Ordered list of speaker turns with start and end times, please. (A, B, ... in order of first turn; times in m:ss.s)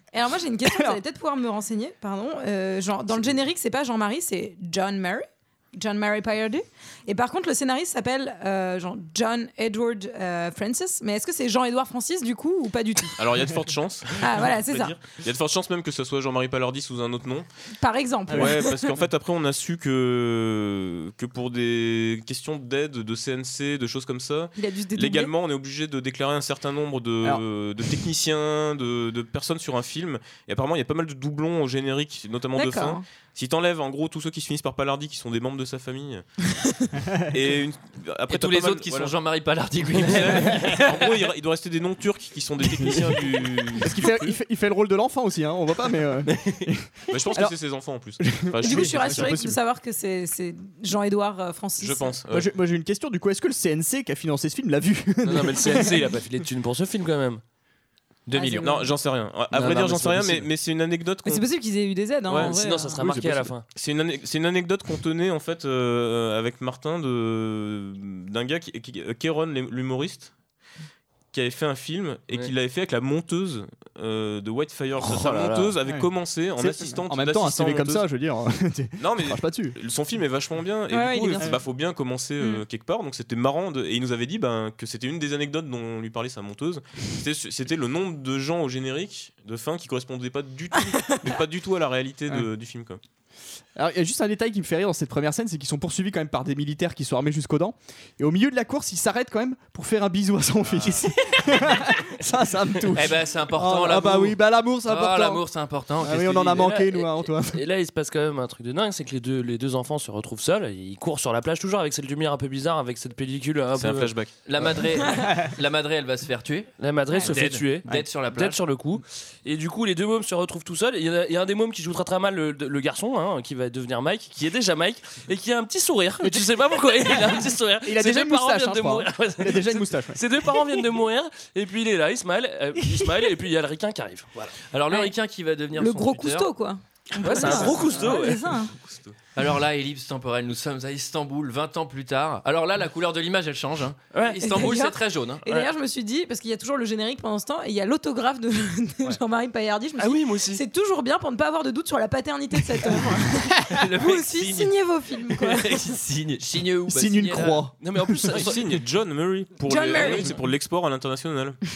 0:00.1-0:13.2 A
0:00.6-0:01.0 B
0:13.2-0:17.5 C
0:14.2-0:15.0 A
0:17.8-0:19.0 A
0:18.3-0:18.6 B
0:18.3-0:36.2 C
0:24.6-0:25.3 A
0:32.5-0:33.0 A
0:37.0-0:37.4 B
0:37.3-0:39.2 C
0:38.3-0:41.1 D
0:39.9-0:44.3 C
0:43.8-0:47.6 B
0:47.1-0:49.4 C
0:48.2-0:49.6 B
0:48.6-0:52.2 A
0:51.8-0:52.5 C
0:52.3-0:56.0 B
0:55.2-0:57.4 E
0:58.3-0:58.7 D
0:58.3-0:58.9 A
0:58.5-1:01.5 C
0:59.5-1:00.5 E
1:01.2-1:03.0 A
1:02.3-1:02.6 C
1:02.3-1:03.6 E
1:03.0-1:03.5 B
1:03.7-1:10.3 C
1:11.3-1:18.0 C
1:15.0-1:15.7 E
1:15.9-1:19.8 B
1:19.0-1:33.0 C
1:20.9-1:21.6 A
1:22.4-1:22.6 A
1:30.9-1:31.4 A
1:33.8-1:45.4 B
1:42.9-1:46.7 D
1:46.0-1:47.6 B
1:46.5-1:54.1 E
1:53.8-1:54.3 C
1:54.5-1:56.7 D
1:56.8-2:14.5 E
1:57.1-1:57.4 A
1:57.2-1:58.6 D
2:06.2-2:10.2 B
2:14.6-2:16.5 D
2:15.7-2:18.7 A
2:17.2-2:18.5 E
2:17.4-2:17.8 D
2:18.7-2:19.2 C
2:19.4-2:25.5 D
2:24.1-2:24.7 E
2:24.4-2:36.0 A
2:30.0-2:30.6 E
2:33.7-2:34.7 D
2:35.3-2:37.6 D
2:36.9-2:38.2 B
2:37.8-2:38.8 E
2:38.3-2:41.6 C
2:39.6-2:40.3 A
2:39.9-2:40.4 E